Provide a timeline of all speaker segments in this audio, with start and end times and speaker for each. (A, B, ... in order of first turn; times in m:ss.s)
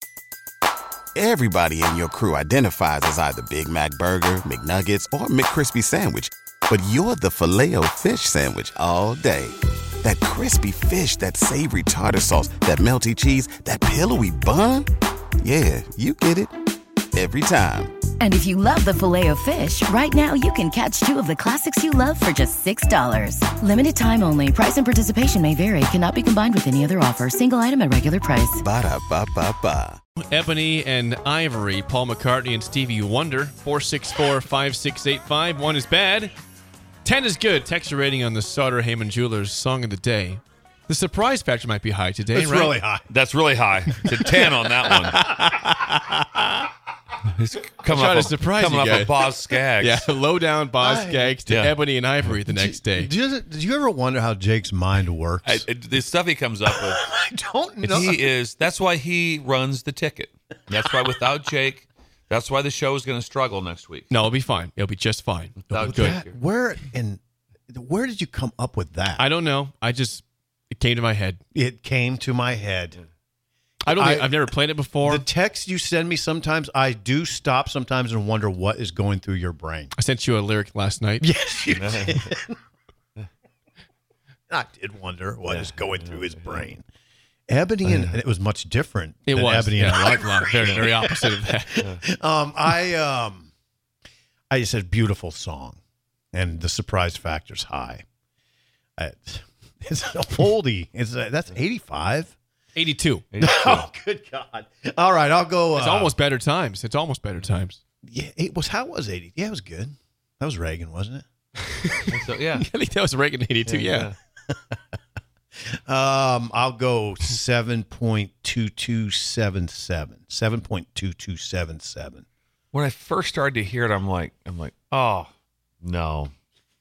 0:01.1-0:14.9 A
0:15.4-0:16.5 A
0:17.1-0:17.9 A
0:18.2-0:28.6 B
0:28.6-0:30.0 A
0:30.2-0:36.3 C
0:37.0-0:42.8 C
0:42.3-0:43.0 D
0:43.1-0:45.2 E
0:45.2-0:46.5 C
0:45.2-0:45.5 D
0:47.3-0:50.1 E
0:47.9-0:53.1 C
0:50.8-0:51.3 D
0:51.4-0:51.8 E
0:52.4-0:55.6 D
0:55.4-0:57.1 E
0:56.7-0:58.3 D
0:57.8-1:04.1 E
1:04.1-1:06.2 C
1:05.6-1:06.4 E
1:05.8-1:09.2 D
1:09.2-1:11.4 C
1:11.5-1:13.0 D
1:13.9-1:15.3 C
1:13.9-1:19.9 D
1:20.0-1:21.3 C
1:21.2-1:22.6 D
1:21.7-1:22.3 E
1:24.5-1:26.8 D
1:25.5-1:26.7 E
1:27.5-1:33.5 D
1:27.8-1:28.2 E
1:29.3-1:31.8 C
1:34.5-1:35.8 D
1:36.3-1:38.0 D
1:39.0-1:42.4 D
1:42.8-1:43.2 C
1:43.3-1:43.9 E
1:43.4-1:46.1 D
1:45.8-1:47.8 C
1:48.1-1:51.2 D
1:51.8-1:54.1 C
1:52.1-1:52.7 E
1:53.7-1:54.1 E
1:54.5-1:54.8 D
1:55.9-2:02.2 D
2:02.7-2:05.3 E
2:05.8-2:06.3 E